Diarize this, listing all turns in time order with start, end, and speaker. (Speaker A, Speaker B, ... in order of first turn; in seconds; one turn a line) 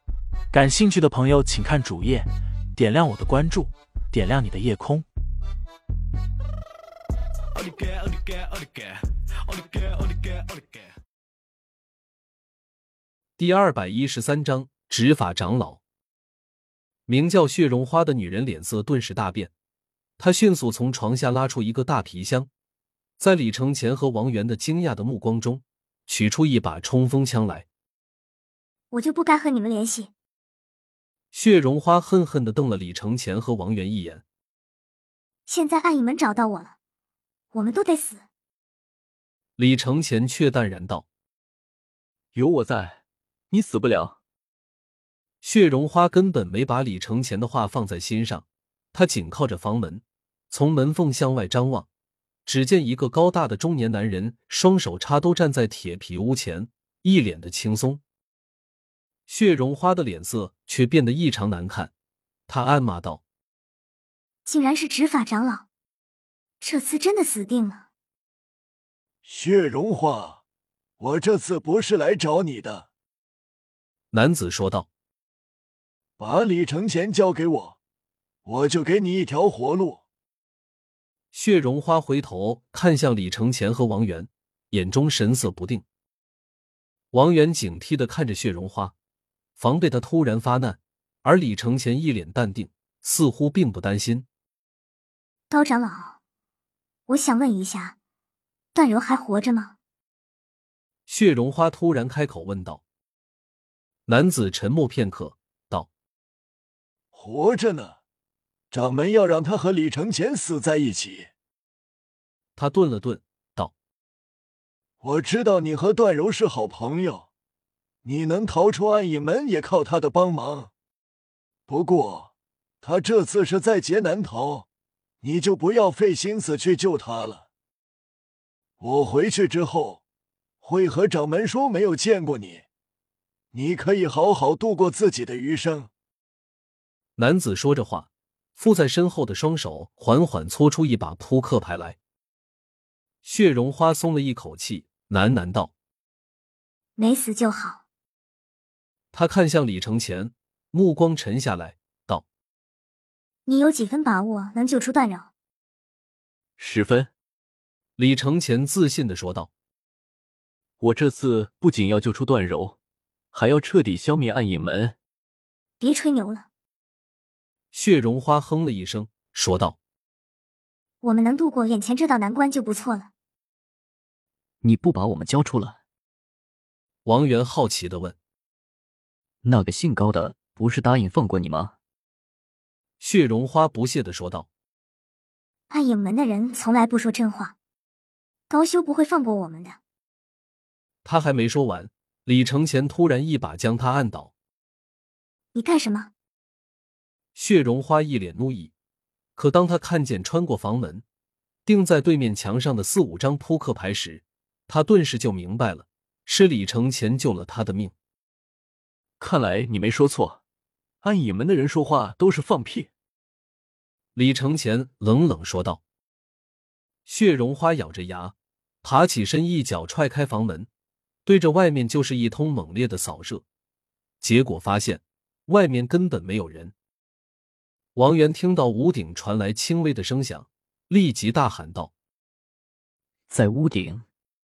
Speaker A: 0.5-5.0
Speaker B: 13.4-15.8
Speaker B: 17.1-19.5
Speaker B: 20.2-22.5
Speaker B: 23.2-27.7
Speaker C: 28.9-30.1
Speaker B: 31.3-34.2
Speaker C: 35.5-36.7
Speaker C: 37.5-38.2
Speaker B: 39.6-41.0
Speaker D: 42.3-43.0
Speaker D: 43.5-44.2
Speaker B: 45.4-51.9
Speaker B: 52.5-58.0
Speaker B: 59.3-61.9
Speaker B: 62.5-63.2
Speaker C: 64.5-65.7
Speaker C: 66.6-67.8
Speaker E: 69.2-70.4
Speaker E: 71.0-72.9
Speaker B: 74.1-74.9
Speaker E: 76.2-77.8
Speaker E: 78.5-80.0
Speaker B: 81.3-85.8
Speaker B: 87.1-88.9
Speaker B: 89.6-94.2
Speaker C: 95.5-96.2
Speaker C: 97.1-98.0
Speaker C: 98.7-99.8
Speaker B: 101.1-102.8
Speaker B: 104.1-105.9
Speaker E: 107.1-108.0
Speaker E: 108.7-111.3
Speaker B: 112.6-113.7
Speaker E: 115.0-117.3
Speaker E: 118.0-120.7
Speaker E: 121.7-122.3
Speaker E: 122.8-124.7
Speaker E: 125.2-127.5
Speaker E: 128.8-130.0
Speaker E: 130.6-132.7
Speaker E: 133.5-135.9
Speaker B: 137.2-142.0
Speaker B: 143.2-145.7
Speaker C: 147.0-147.8
Speaker B: 149.1-152.2
Speaker C: 153.5-155.3
Speaker D: 156.6-157.1
Speaker B: 158.0-159.5
Speaker D: 160.8-162.8
Speaker D: 163.3-165.0
Speaker C: 165.8-166.5
Speaker B: 167.7-169.8
Speaker C: 171.0-173.1
Speaker D: 174.6-175.8
Speaker B: 177.1-178.2
Speaker D: 179.4-181.7
Speaker B: 183.0-184.5
Speaker C: 185.7-187.5
Speaker C: 188.5-189.8
Speaker B: 191.0-194.3
Speaker C: 195.5-196.1
Speaker B: 197.4-198.7
Speaker B: 199.4-201.0
Speaker B: 201.7-207.9
Speaker D: 209.2-210.4
Speaker D: 211.0-212.9
Speaker B: 214.2-215.8
Speaker B: 217.1-220.7
Speaker B: 221.3-223.4
Speaker B: 224.2-226.7
Speaker B: 227.9-231.9
Speaker D: 233.3-234.0